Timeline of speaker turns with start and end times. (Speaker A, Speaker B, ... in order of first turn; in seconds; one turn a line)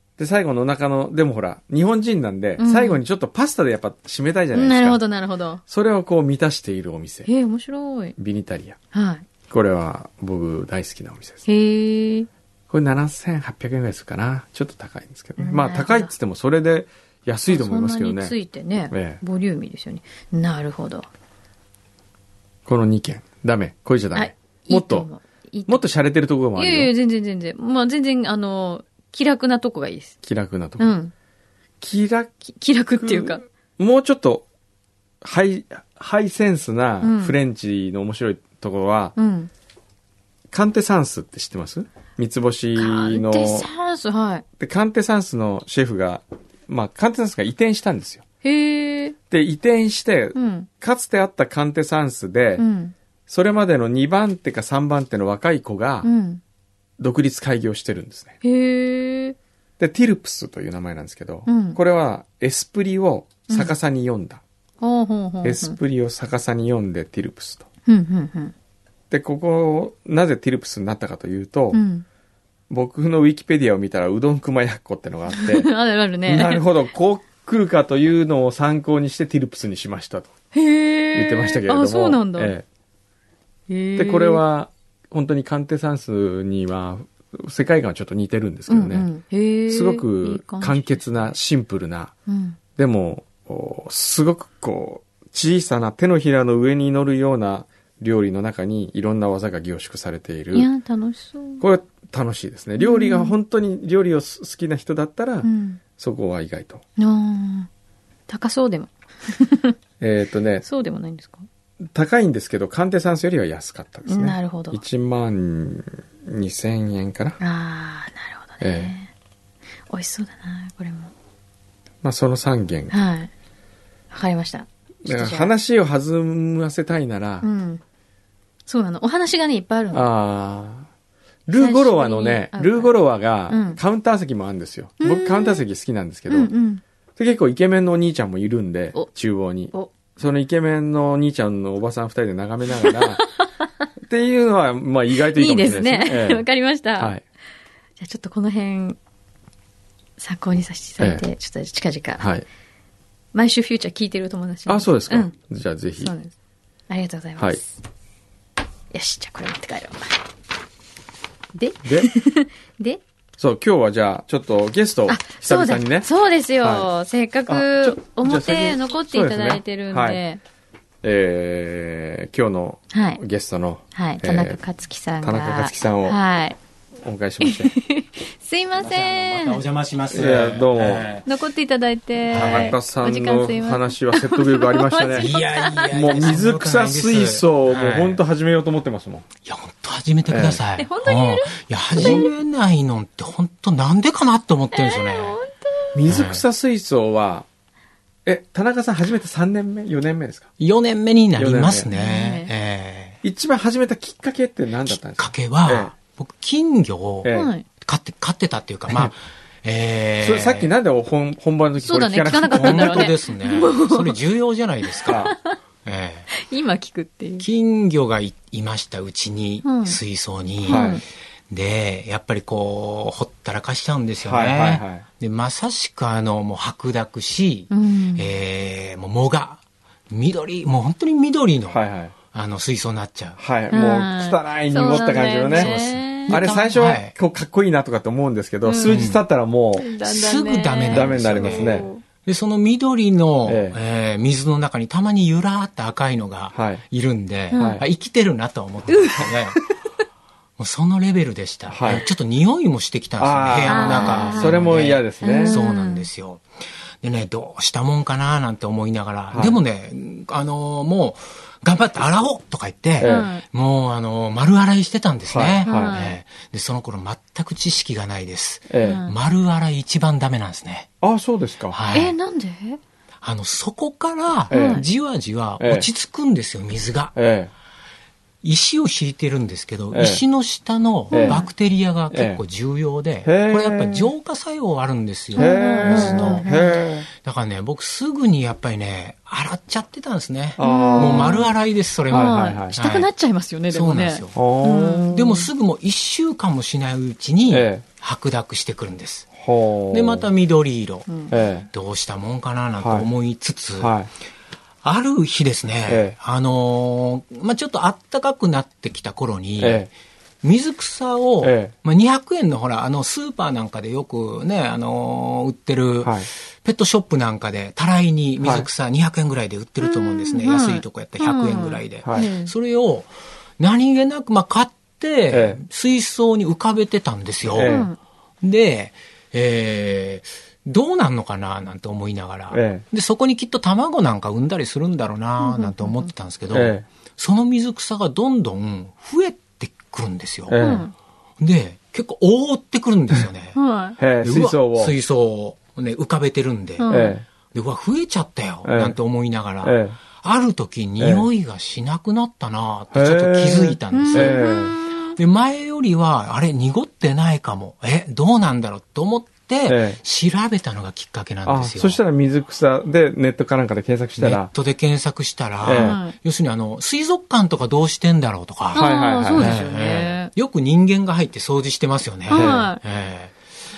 Speaker A: 0.2-5.0
Speaker B: 2.6-3.0
Speaker B: 4.5-5.6
Speaker A: 5.7-7.3
Speaker B: 7.2-8.2
Speaker A: 8.2-8.8
Speaker B: 8.9-9.2
Speaker A: 9.5-11.4
Speaker B: 11.4-12.3
Speaker A: 12.7-18.3
Speaker B: 15.4-16.1
Speaker B: 17.5-21.1
Speaker A: 18.9-19.2
Speaker A: 22.7-25.1
Speaker B: 24.1-25.9
Speaker A: 25.7-26.9
Speaker B: 26.6-30.2
Speaker A: 30.2-31.0
Speaker B: 30.8-31.1
Speaker A: 31.8-32.3
Speaker B: 32.4-33.4
Speaker A: 33.0-34.4
Speaker A: 35.2-39.1
Speaker B: 37.0-37.4
Speaker B: 39.1-39.5
Speaker A: 40.5-43.7
Speaker B: 42.8-44.4
Speaker A: 44.6-48.2
Speaker B: 48.4-49.1
Speaker A: 49.3-52.6
Speaker B: 50.4-50.7
Speaker B: 52.6-52.9
Speaker A: 53.3-56.1
Speaker B: 56.0-56.4
Speaker A: 57.0-58.4
Speaker B: 58.4-59.4
Speaker A: 59.8-64.4
Speaker B: 61.5-61.8
Speaker B: 64.8-65.8
Speaker A: 65.4-67.6
Speaker B: 67.9-68.5
Speaker A: 69.1-71.8
Speaker B: 71.7-72.0
Speaker A: 72.7-75.7
Speaker B: 75.3-76.6
Speaker A: 76.2-80.3
Speaker B: 80.5-82.5
Speaker A: 81.1-82.6
Speaker B: 83.7-84.4
Speaker A: 84.0-89.1
Speaker B: 88.7-91.3
Speaker A: 89.7-92.1
Speaker B: 92.3-92.6
Speaker A: 92.8-100.7
Speaker B: 100.5-101.6
Speaker A: 101.6-106.8
Speaker B: 102.8-103.3
Speaker B: 105.4-105.8
Speaker B: 107.0-107.7
Speaker B: 108.3-109.8
Speaker A: 110.0-110.6
Speaker B: 110.6-111.4
Speaker A: 111.9-117.4
Speaker B: 114.1-114.8
Speaker B: 117.4-119.1
Speaker A: 118.6-118.9
Speaker B: 119.9-121.1
Speaker A: 122.0-122.9
Speaker B: 122.9-123.3
Speaker B: 124.1-125.5
Speaker A: 125.1-127.5
Speaker B: 127.4-127.8
Speaker B: 128.7-130.1
Speaker A: 129.9-130.9
Speaker A: 131.5-136.5
Speaker B: 131.6-132.9
Speaker B: 133.5-133.8
Speaker B: 135.0-135.7
Speaker B: 136.3-136.8
Speaker A: 137.2-143.2
Speaker B: 142.8-143.7
Speaker A: 144.1-146.4
Speaker B: 145.2-147.2
Speaker B: 148.0-149.0
Speaker B: 150.2-152.3
Speaker A: 152.2-152.4
Speaker B: 153.3-155.3
Speaker A: 154.7-156.1
Speaker B: 156.0-156.3
Speaker B: 156.9-157.8
Speaker B: 158.9-160.2
Speaker B: 161.6-163.0
Speaker A: 161.8-162.1
Speaker A: 163.4-166.1
Speaker B: 165.1-170.4
Speaker A: 166.6-166.9
Speaker A: 167.5-170.2
Speaker A: 171.0-174.6
Speaker B: 172.9-173.2
Speaker B: 173.9-176.6
Speaker A: 175.2-176.2
Speaker A: 177.0-177.7
Speaker B: 177.4-179.6
Speaker C: 178.8-181.2
Speaker A: 180.1-181.1
Speaker B: 181.2-186.4
Speaker C: 182.3-182.8
Speaker A: 182.3-185.3
Speaker C: 185.2-188.2
Speaker A: 185.9-189.2
Speaker C: 189.4-195.4
Speaker A: 190.3-190.6
Speaker B: 190.8-192.3
Speaker A: 192.0-192.2
Speaker B: 194.7-196.0
Speaker A: 195.9-197.4
Speaker C: 196.1-196.4
Speaker A: 198.2-200.5
Speaker C: 200.6-203.2
Speaker A: 201.4-201.9
Speaker B: 201.9-202.5
Speaker A: 203.2-205.9
Speaker C: 204.9-210.7
Speaker A: 207.2-207.5
Speaker B: 207.3-207.7
Speaker A: 210.2-213.2
Speaker B: 211.8-214.2
Speaker C: 212.3-215.2
Speaker B: 214.9-215.6
Speaker A: 215.1-215.4
Speaker C: 215.8-216.3
Speaker B: 216.3-217.4
Speaker C: 217.4-231.8
Speaker B: 219.6-220.0
Speaker B: 220.6-221.0
Speaker A: 220.7-221.0
Speaker A: 224.2-225.1
Speaker B: 227.7-228.3
Speaker A: 231.7-232.1
Speaker C: 232.3-233.4
Speaker A: 233.4-239.9
Speaker B: 233.7-236.4
Speaker C: 235.5-237.1
Speaker B: 238.6-239.0
Speaker C: 238.8-239.2
Speaker B: 239.8-242.0
Speaker C: 240.0-249.6
Speaker A: 240.9-241.9
Speaker A: 243.4-243.8
Speaker A: 246.5-246.8
Speaker B: 247.5-247.8
Speaker A: 247.6-247.8
Speaker B: 248.9-249.7
Speaker C: 250.6-256.4
Speaker A: 251.7-252.1
Speaker A: 253.2-255.6
Speaker B: 253.7-254.7
Speaker B: 255.2-256.1
Speaker C: 257.0-270.9
Speaker A: 259.3-259.6
Speaker A: 263.0-263.3
Speaker B: 263.0-263.4
Speaker A: 265.3-266.0
Speaker B: 265.6-266.2
Speaker A: 268.7-269.0
Speaker B: 268.8-269.1
Speaker A: 271.0-271.8
Speaker C: 271.7-272.1
Speaker B: 271.9-272.8
Speaker C: 273.2-277.1
Speaker B: 274.5-274.8
Speaker A: 274.5-274.9
Speaker A: 275.6-275.9
Speaker A: 277.1-277.5
Speaker C: 278.4-286.5
Speaker A: 279.9-280.2
Speaker A: 281.1-281.4
Speaker B: 281.1-281.5
Speaker A: 282.1-282.4
Speaker A: 283.2-284.1
Speaker B: 285.3-286.8
Speaker A: 285.3-287.1
Speaker C: 287.1-293.1
Speaker A: 290.6-291.5
Speaker B: 290.6-291.5
Speaker A: 292.1-292.8
Speaker B: 292.1-295.4
Speaker C: 293.7-294.4
Speaker A: 294.4-295.3
Speaker C: 295.1-299.3
Speaker A: 297.5-297.8
Speaker A: 299.4-300.3
Speaker C: 299.9-304.0
Speaker B: 301.1-301.3
Speaker A: 301.3-301.7
Speaker A: 302.8-303.1
Speaker A: 303.8-304.1
Speaker C: 304.8-327.8
Speaker A: 305.9-306.1
Speaker A: 309.6-309.9
Speaker A: 311.4-311.7
Speaker A: 316.0-316.3
Speaker A: 318.4-318.7
Speaker B: 319.8-322.5
Speaker A: 325.3-325.6
Speaker A: 327.5-327.9
Speaker B: 327.6-328.0
Speaker C: 328.4-340.6
Speaker A: 332.5-332.8
Speaker B: 335.4-336.1
Speaker A: 336.5-336.9
Speaker A: 340.5-340.9
Speaker B: 340.6-340.9
Speaker C: 341.4-343.6
Speaker B: 343.6-344.0
Speaker A: 344.0-344.9
Speaker C: 344.2-346.9
Speaker B: 346.8-347.2
Speaker A: 346.9-347.2
Speaker C: 347.5-354.5
Speaker A: 348.6-348.9
Speaker A: 349.6-350.0
Speaker A: 351.0-351.3
Speaker A: 352.9-354.8
Speaker B: 353.9-355.2
Speaker C: 355.0-362.0
Speaker A: 359.7-360.0
Speaker A: 361.5-364.5
Speaker C: 364.2-373.4
Speaker A: 365.6-366.0
Speaker B: 365.8-366.1
Speaker B: 368.7-370.3
Speaker A: 368.7-369.6
Speaker B: 372.3-372.8
Speaker A: 372.3-372.6